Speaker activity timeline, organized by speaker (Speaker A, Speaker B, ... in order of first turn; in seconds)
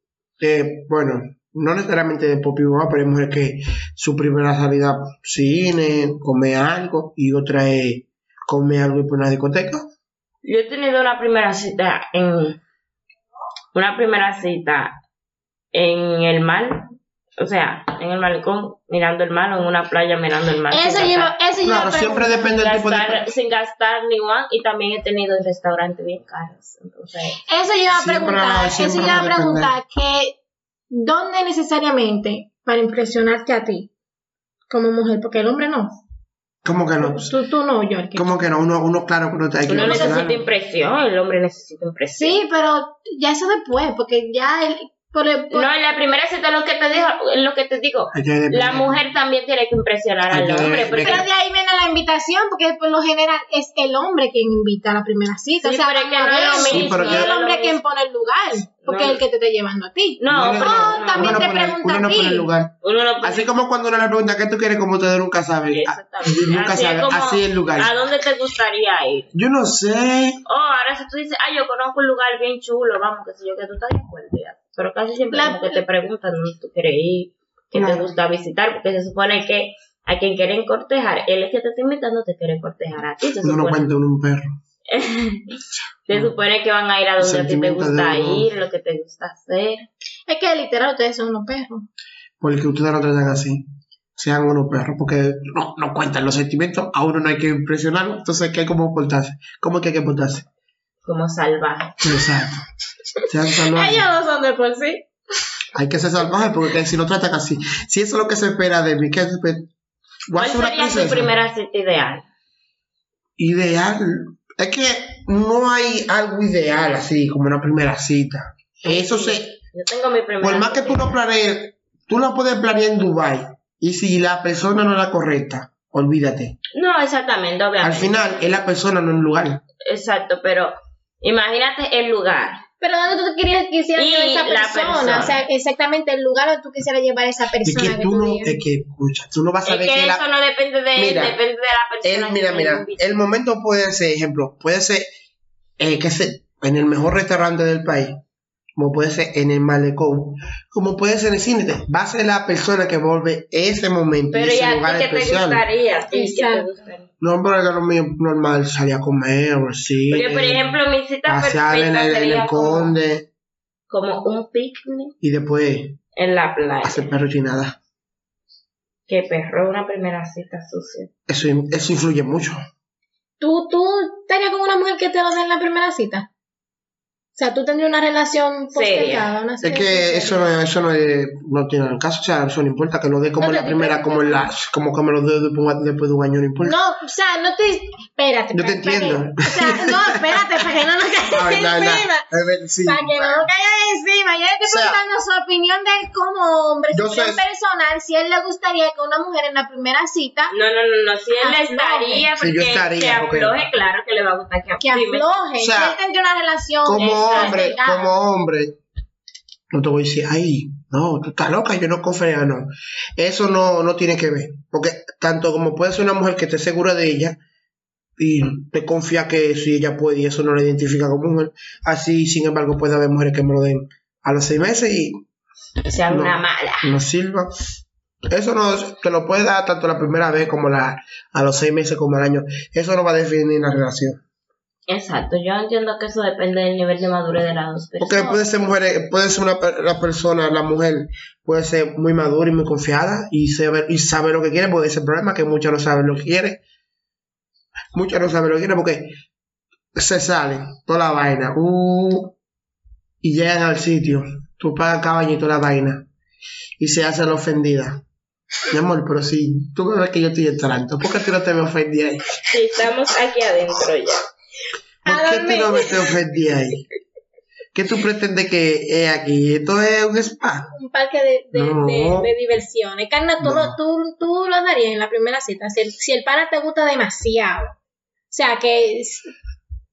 Speaker A: 0.4-9.9, 21.6-23.3, 27.9-29.7, 36.6-37.3, 38.1-40.4, 48.1-49.0, 50.3-51.2, 56.6-57.3, 60.3-67.9, 69.3-70.4, 77.7-78.1, 83.4-84.5, 87.2-88.5, 92.4-93.6, 94.2-100.5, 102.0-102.7, 103.3-104.1, 105.7-109.7, 110.3-111.3, 113.4-119.6, 120.4-126.6, 127.8-129.6, 137.6-140.2, 140.9-141.4, 142.0-145.1, 145.8-148.2, 148.8-155.6, 157.2-160.7, 161.2-163.3, 165.2-166.0, 166.8-167.8, 171.3-172.6, 179.6-186.8, 188.5-190.4, 191.3-193.5, 194.6-195.0, 196.9-197.4, 202.4-203.6, 205.6-206.0, 206.8-208.8, 209.7-217.4, 218.2-225.2, 226.1-227.7, 228.3-234.2, 238.0-246.6, 247.9-249.2, 249.9-252.3, 253.2-256.1, 256.8-258.0, 258.7-262.2, 265.0-266.8, 267.7-270.7, 271.5-272.3, 273.4-273.7
Speaker B: 10.4-12.6, 13.7-15.0, 15.7-21.3, 22.5-27.4, 39.7-42.4, 45.5-51.2, 55.6-57.8, 58.8-59.2, 60.2-61.4, 62.8-63.5, 65.7-69.3, 70.4-83.9, 84.9-89.9, 101.0-102.0, 110.4-112.2, 118.8-121.2, 126.7-128.2, 129.8-132.6, 133.9-135.4, 139.6-143.0, 154.3-157.1, 160.1-162.9, 163.9-165.1, 166.1-167.1, 169.1-171.1, 178.7-179.3, 200.5-205.3, 206.9-207.7, 225.8-227.0, 234.9-238.6, 262.5-264.2
Speaker C: 20.7-22.5, 27.5-30.4, 30.9-33.9, 34.7-36.0, 37.0-38.4, 39.8-40.2, 42.2-45.7, 51.0-62.5, 75.3-75.8, 90.3-91.8, 103.6-105.1, 132.8-138.6, 156.1-156.7, 173.4-176.3, 177.3-180.5, 183.4-184.5, 186.6-192.2, 192.8-200.5, 201.4-202.3, 204.8-208.1, 265.1-266.1, 270.7-277.7, 278.3-279.3